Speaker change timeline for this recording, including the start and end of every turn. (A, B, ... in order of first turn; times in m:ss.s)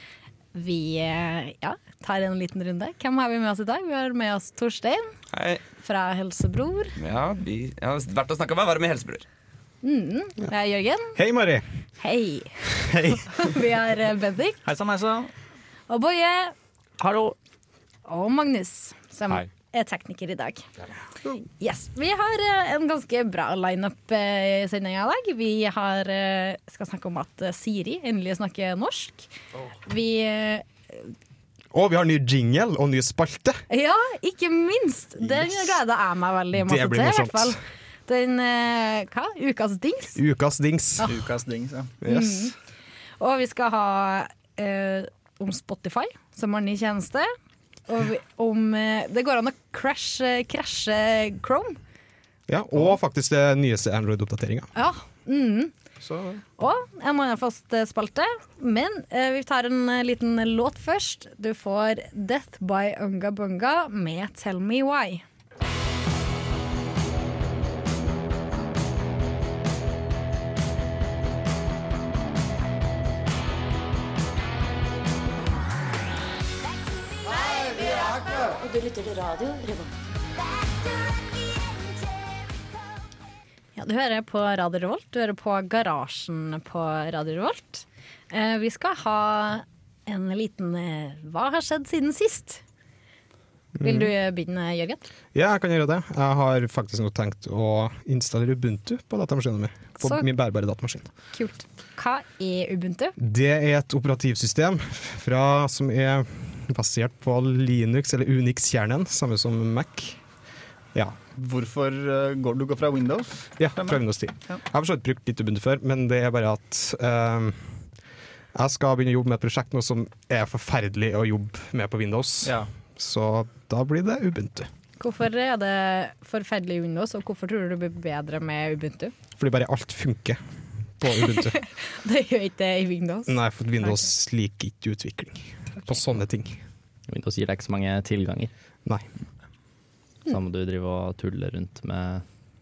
0:00.5-0:05.1 A
0:05.3-0:05.6 B
0:05.8-0:06.9 A
0:07.0-0:09.2 B
0:09.8-0:11.2 A
0:11.2-0:11.6 C
0:12.0-0:14.6 A
0:14.6-0:15.3 D
0:15.9-0:16.5 A
0:17.0-0:17.4 E
0:18.0-0:20.6 A
0:21.6-0:29.3 A
0:29.8-0:31.1 A
0:31.7-0:33.6 C
0:33.7-0:40.2 A
0:36.5-0:37.6 C
0:40.2-0:41.1 C
0:41.0-0:41.9 D
0:42.0-0:42.5 C
0:42.0-0:42.5 A
0:43.2-0:47.3 A
0:47.9-0:51.8 A
0:52.5-0:54.7 C
0:54.7-0:55.7 A
0:56.0-0:56.4 C
0:56.6-1:05.2 A
1:17.5-1:20.0 F
1:23.8-1:32.6 A
1:33.8-1:34.1 C
1:33.8-1:35.1 A
1:35.3-1:41.1 C
1:40.0-1:40.2 A
1:41.3-1:43.2 A
1:43.2-1:50.2 C
1:51.4-1:54.6 D
1:53.6-1:57.8 C
1:58.5-2:04.7 C
2:02.4-2:02.7 D
2:05.0-2:09.1 A
2:09.4-2:10.4 C
2:11.0-2:11.6 C
2:11.5-2:14.1 A
2:13.3-2:16.6 C
2:17.1-2:18.5 E
2:20.3-2:22.2 E